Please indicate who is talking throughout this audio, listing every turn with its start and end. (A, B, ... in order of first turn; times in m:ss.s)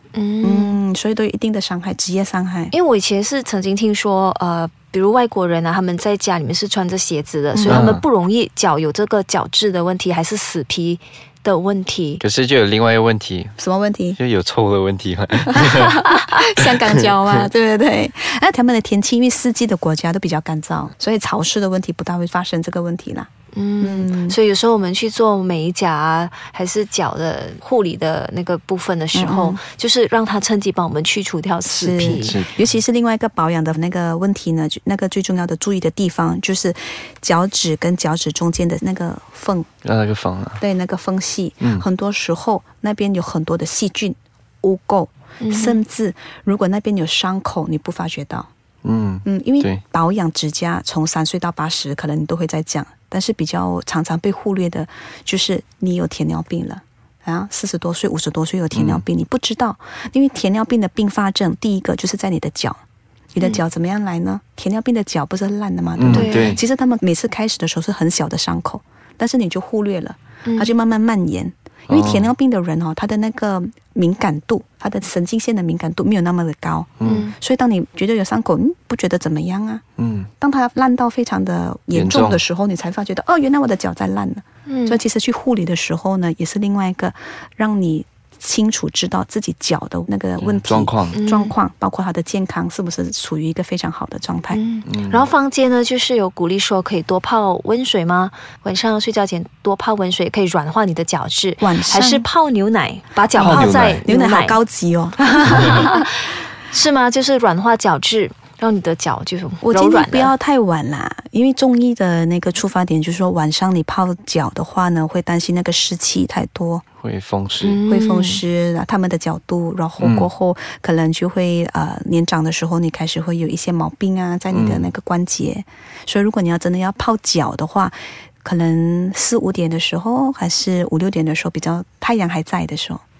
0:00.1-0:00.8 A
0:00.4-0:02.7 B
0:02.7-0:12.2 A
0:07.5-0:07.9 B
0:07.7-0:08.0 C
0:12.2-0:13.6 C
0:13.6-0:14.2 B
0:14.2-0:16.4 C
0:15.5-0:23.3 B
0:23.5-0:32.4 A
0:23.8-0:24.4 B
0:29.1-0:29.6 B
0:31.6-0:39.7 B
0:32.0-0:32.6 C
0:39.8-0:40.6 C
0:40.6-0:48.5 B
0:45.4-0:45.8 A
0:48.8-0:49.8 C
0:49.2-1:02.8 B
0:58.7-0:59.0 C
1:03.3-1:19.8 B
1:06.0-1:06.6 C
1:06.1-1:06.6 A
1:10.4-1:10.7 A
1:11.9-1:12.3 C
1:17.0-1:17.3 C
1:17.0-1:17.3 A
1:20.0-1:20.3 C
1:20.4-1:34.6 B
1:21.9-1:22.4 C
1:24.7-1:25.0 A
1:30.4-1:31.2 C
1:31.1-1:31.5 A
1:34.5-1:44.6 A
1:34.8-1:35.3 C
1:41.6-1:42.2 B
1:43.4-1:44.0 C
1:43.4-1:46.0 B
1:45.2-1:46.1 A
1:46.7-1:50.3 A
1:49.6-1:56.8 B
1:57.0-1:57.8 C
1:57.6-1:58.4 A
1:57.9-2:13.0 B
2:00.0-2:00.3 C
2:04.5-2:04.9 C